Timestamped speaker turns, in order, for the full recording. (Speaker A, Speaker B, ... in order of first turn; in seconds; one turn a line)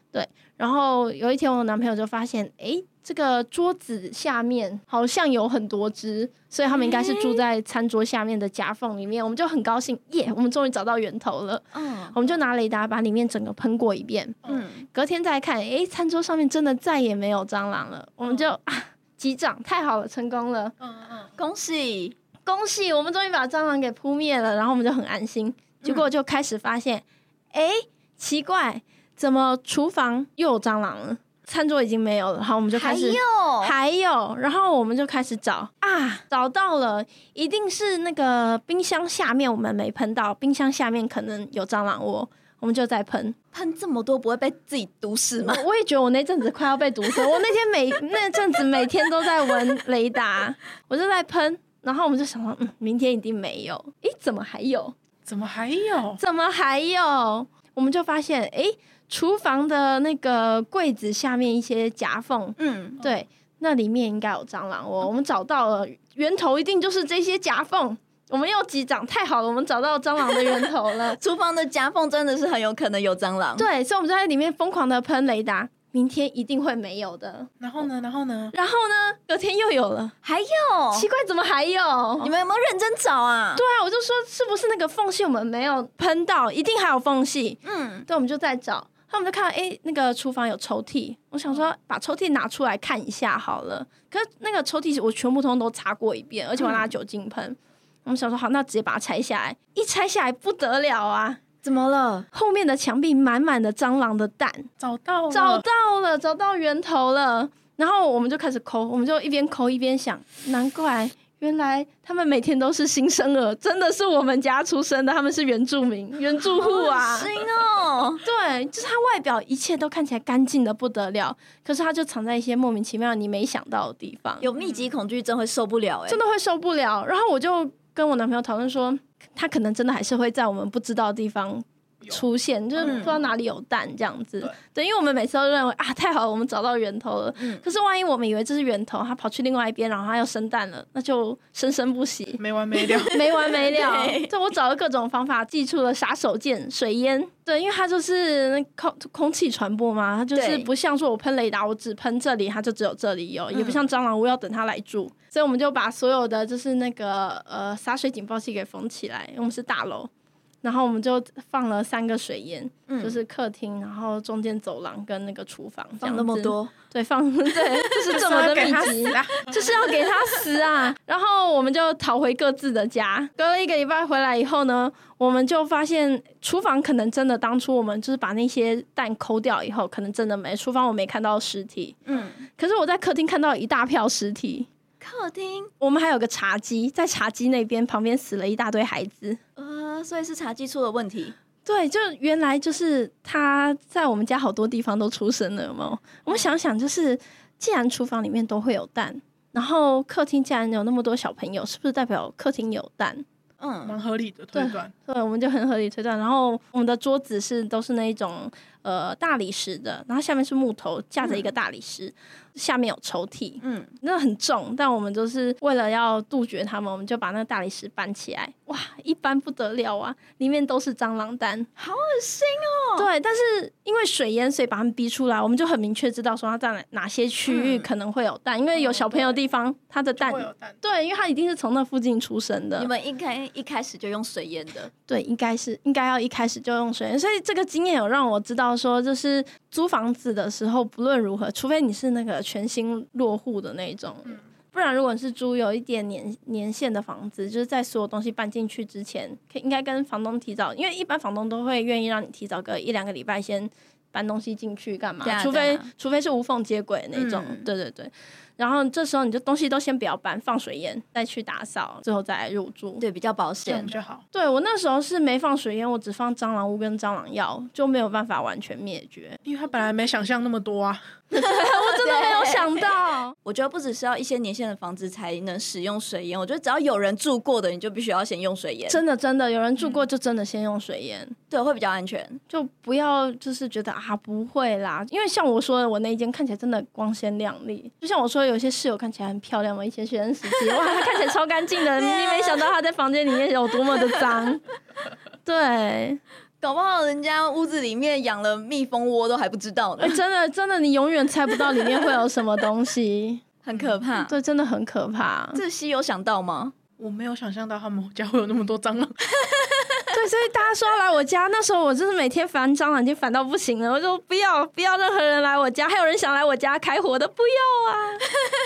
Speaker A: 0.1-14.4
Speaker B: 6.7-7.4
Speaker B: 11.7-12.2
Speaker B: 14.5-14.8
Speaker A: 14.9-20.8
Speaker C: 20.8-21.3
Speaker B: 21.4-22.2
Speaker A: 22.4-43.4
Speaker B: 32.7-33.7
Speaker B: 43.5-45.6
Speaker A: 45.4-54.9
Speaker C: 55.2-56.2
Speaker A: 56.2-71.2
Speaker B: 62.6-63.0
Speaker B: 71.2-73.7
Speaker A: 73.6-77.5
Speaker C: 77.6-78.5
Speaker A: 78.5-80.1
Speaker B: 80.2-81.1
Speaker A: 80.9-82.3
Speaker B: 82.2-83.6
Speaker A: 83.6-101.4
Speaker B: 87.7-88.1
Speaker B: 96.6-96.9
Speaker B: 101.6-102.3
Speaker A: 102.3-104.7
Speaker C: 104.8-105.7
Speaker A: 105.3-117.3
Speaker B: 116.4-118.2
Speaker A: 118.2-124.5
Speaker B: 124.4-126.2
Speaker A: 126.1-142.4
Speaker C: 132.8-133.2
Speaker B: 132.8-133.2
Speaker C: 142.4-143.2
Speaker B: 142.9-144.3
Speaker A: 143.1-160.1
Speaker B: 150.3-150.7
Speaker B: 153.5-153.8
Speaker A: 160.6-182.0
Speaker B: 162.9-163.2
Speaker B: 166.0-166.7
Speaker C: 168.1-169.7
Speaker B: 182.1-182.4
Speaker A: 182.6-184.7
Speaker B: 185.0-185.7
Speaker A: 185.8-189.4
Speaker B: 189.6-191.3
Speaker A: 191.7-203.2
Speaker B: 203.6-203.9
Speaker C: 203.8-204.9
Speaker A: 204.5-221.7
Speaker B: 213.6-213.9
Speaker B: 221.8-223.1
Speaker A: 223.0-232.9
Speaker B: 227.5-227.9
Speaker C: 228.8-229.4
Speaker C: 230.2-230.8
Speaker B: 232.8-234.9
Speaker A: 235.1-263.0
Speaker B: 255.2-255.9
Speaker B: 257.1-257.7
Speaker B: 263.0-263.9
Speaker C: 263.7-264.2
Speaker A: 264.3-269.4
Speaker C: 269.4-271.0
Speaker A: 271.3-273.3
Speaker B: 271.4-272.9
Speaker B: 273.4-279.0
Speaker A: 278.9-281.4
Speaker B: 281.5-282.4
Speaker A: 282.5-294.6
Speaker B: 291.9-292.7
Speaker A: 295.4-296.2
Speaker B: 296.6-300.2
Speaker A: 300.0-303.4
Speaker B: 303.6-304.3
Speaker A: 304.2-305.6
Speaker B: 305.6-306.8
Speaker C: 307.0-309.3
Speaker B: 309.4-309.9
Speaker A: 310.1-318.2